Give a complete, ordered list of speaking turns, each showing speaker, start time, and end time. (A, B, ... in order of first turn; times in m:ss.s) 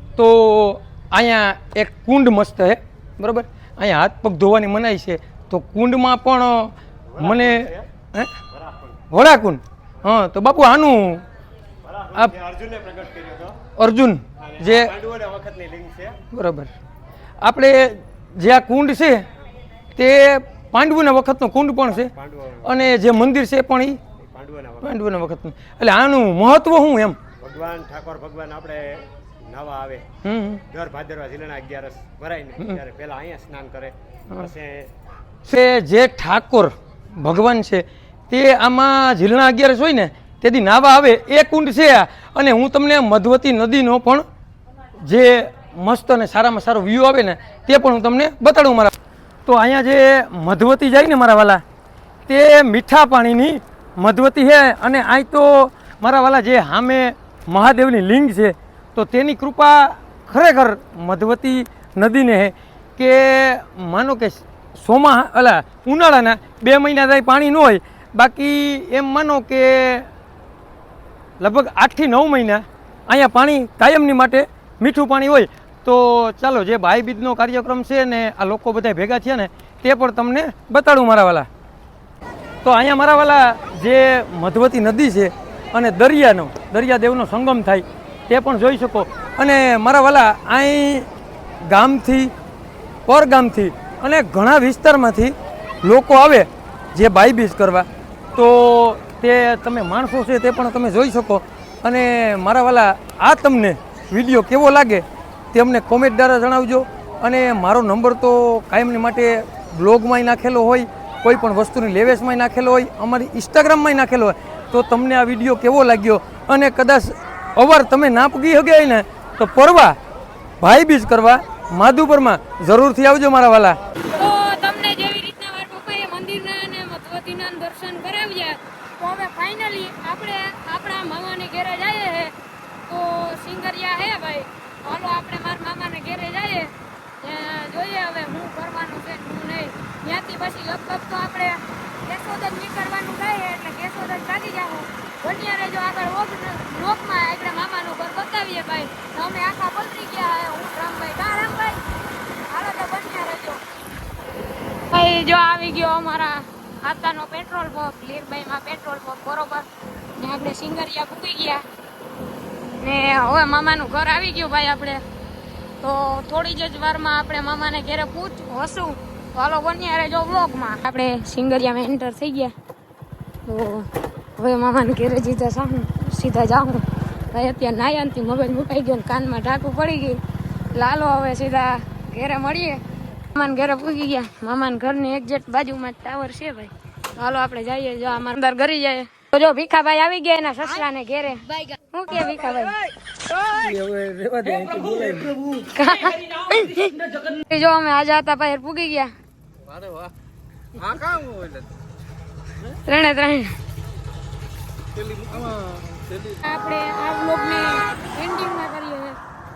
0:00.2-0:08.3 A
0:07.2-0:07.8 B
0:08.5-0:08.8 B
0:09.1-0:11.2 A
0:11.9-0:13.6 B
0:13.8-0:15.0 A
0:14.5-0:16.2 B
0:16.3-0:16.7 A
0:17.4-0:19.2 A
0:20.0-0:24.0 A
0:24.3-0:24.8 B
0:24.8-0:27.2 A
0:27.4-0:30.0 B
0:30.2-0:30.6 A
0:30.7-0:34.9 B
0:35.5-0:44.2 A
0:45.0-0:48.9 A
0:49.5-0:51.6 A
0:52.3-1:10.1 A
1:11.4-1:21.5 A
1:22.6-1:31.1 A
1:31.6-1:32.3 A
1:33.1-2:00.0 A
2:00.6-2:03.8 A
2:04.1-2:12.3 C
2:12.9-2:31.8 C
2:32.5-2:33.6 C
2:34.9-2:41.6 C
2:42.8-2:45.0 C
2:45.8-2:52.5 C
2:53.4-3:00.2 C
3:00.7-3:12.8 C
3:13.4-3:15.6 A
3:15.7-3:19.1 C
3:19.7-3:20.1 A
3:20.8-3:21.6 A
3:22.7-3:23.6 C
3:25.0-3:26.4 A
3:26.4-3:29.2 C